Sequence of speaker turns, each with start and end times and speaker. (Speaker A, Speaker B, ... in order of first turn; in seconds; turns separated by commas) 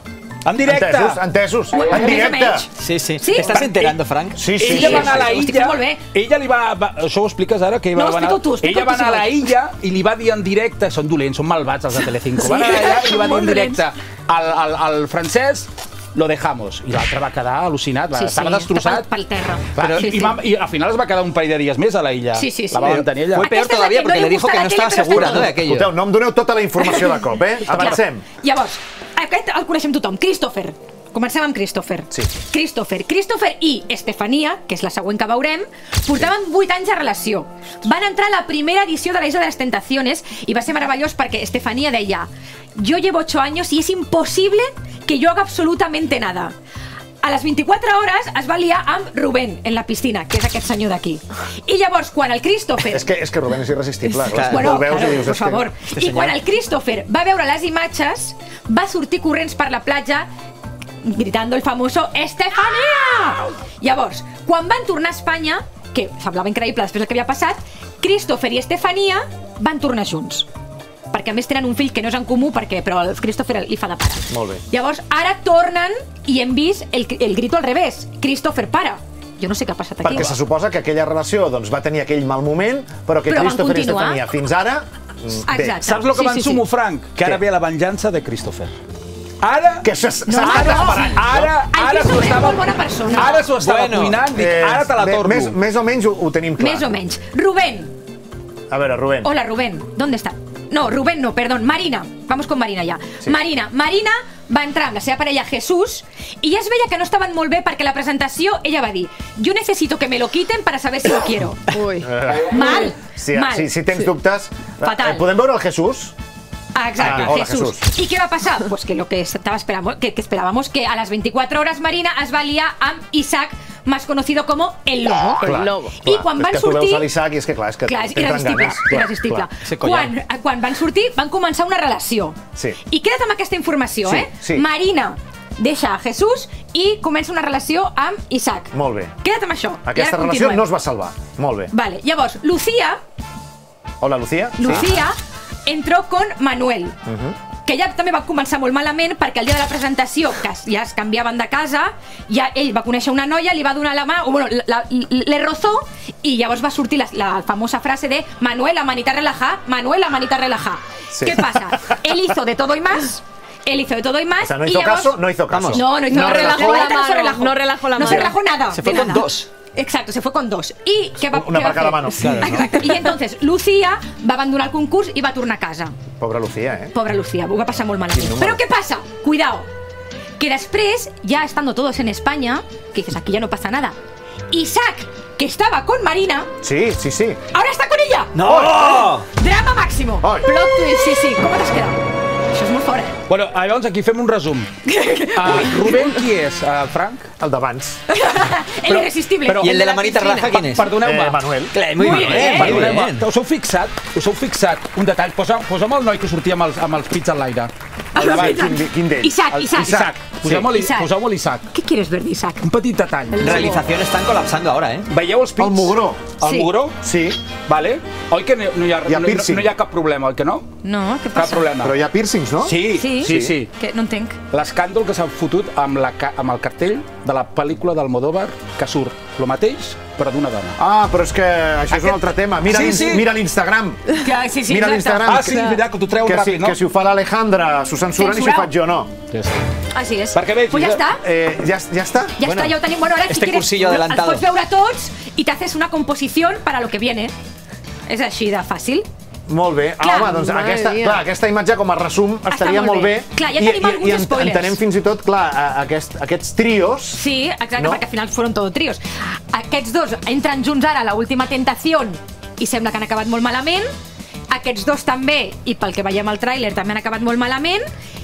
Speaker A: 0.5-1.2, Speaker B: 0.6-2.7, Speaker C: 1.7-3.6, Speaker D: 2.8-5.4, Speaker A: 3.5-3.9, Speaker B: 4.3-5.2, Speaker A: 4.5-19.1, Speaker C: 4.6-6.0, Speaker C: 7.9-9.3, Speaker C: 12.4-13.8, Speaker E: 12.5-12.9, Speaker C: 18.1-20.4, Speaker A: 19.8-23.4, Speaker C: 22.3-25.6, Speaker D: 22.8-25.9, Speaker B: 25.1-28.2, Speaker C: 27.7-46.5, Speaker C: 47.2-53.1, Speaker B: 52.9-55.7, Speaker C: 54.2-60.3, Speaker D: 54.2-55.3, Speaker D: 55.9-56.4, Speaker C: 61.0-70.5, Speaker C: 71.1-80.3, Speaker B: 74.3-74.6, Speaker B: 80.0-85.8, Speaker C: 83.3-84.2, Speaker C: 85.5-86.6, Speaker A: 85.9-88.7, Speaker A: 89.4-89.8, Speaker B: 89.8-91.5, Speaker C: 90.2-93.4, Speaker E: 90.6-91.1, Speaker A: 91.1-92.5, Speaker D: 93.2-94.2, Speaker A: 93.2-95.5, Speaker E: 93.8-94.1, Speaker B: 94.3-96.8, Speaker C: 96.6-97.9, Speaker B: 98.7-99.3, Speaker C: 99.2-111.7, Speaker E: 111.7-112.1, Speaker B: 112.0-116.1, Speaker C: 112.3-113.8, Speaker C: 114.8-115.2, Speaker C: 116.7-127.1, Speaker B: 117.0-117.8, Speaker B: 125.4-129.5, Speaker C: 127.9-140.7, Speaker D: 129.6-130.1, Speaker B: 134.0-134.7, Speaker B: 138.7-139.1, Speaker B: 139.8-141.7, Speaker C: 141.7-143.0, Speaker B: 144.0-144.9, Speaker C: 144.6-147.0, Speaker B: 147.1-147.3, Speaker C: 147.7-165.2, Speaker B: 161.1-161.4, Speaker B: 164.4-167.1, Speaker D: 165.5-165.8, Speaker C: 165.7-175.9, Speaker E: 166.1-168.3, Speaker B: 168.0-168.3, Speaker D: 168.7-169.5, Speaker B: 171.3-172.7, Speaker D: 172.2-172.6, Speaker B: 176.2-176.9, Speaker C: 176.9-179.7, Speaker B: 178.1-178.6, Speaker C: 180.4-183.9, Speaker C: 184.5-186.5, Speaker B: 186.6-187.4, Speaker C: 187.5-188.3, Speaker D: 188.3-189.3, Speaker B: 188.4-189.0, Speaker C: 189.3-192.0, Speaker B: 190.2-190.5, Speaker C: 192.5-193.2, Speaker A: 193.3-194.7, Speaker C: 194.9-196.1, Speaker A: 195.3-197.3, Speaker B: 197.4-198.0, Speaker C: 198.1-200.5, Speaker A: 198.9-199.8, Speaker D: 199.6-200.9, Speaker A: 200.5-201.4, Speaker B: 201.0-202.4, Speaker D: 201.7-203.3, Speaker C: 201.9-203.0, Speaker A: 202.2-207.7, Speaker C: 208.1-211.1, Speaker B: 208.2-210.6, Speaker A: 209.5-211.6, Speaker E: 210.4-210.9, Speaker C: 211.7-212.7, Speaker A: 212.7-213.5, Speaker E: 213.3-213.8, Speaker D: 213.4-215.1, Speaker A: 215.1-216.9, Speaker B: 215.6-216.4, Speaker C: 216.4-216.7, Speaker B: 217.0-217.4, Speaker A: 217.7-220.6, Speaker B: 219.0-219.7, Speaker C: 220.8-221.7, Speaker A: 221.4-221.9, Speaker B: 221.8-223.6, Speaker A: 222.6-223.7, Speaker C: 222.9-224.4, Speaker A: 224.5-230.8, Speaker B: 230.8-239.1, Speaker A: 232.7-233.2, Speaker C: 234.2-235.3, Speaker A: 235.3-236.8, Speaker C: 238.2-238.7, Speaker A: 239.3-239.6, Speaker C: 239.9-241.2, Speaker A: 240.3-241.0, Speaker B: 241.2-242.7, Speaker C: 242.4-247.3, Speaker D: 243.2-244.4, Speaker C: 248.1-249.1, Speaker B: 249.5-257.2, Speaker C: 250.0-250.5, Speaker E: 250.4-251.2, Speaker C: 252.5-254.8, Speaker C: 257.1-263.9, Speaker B: 257.8-258.0, Speaker C: 264.5-267.8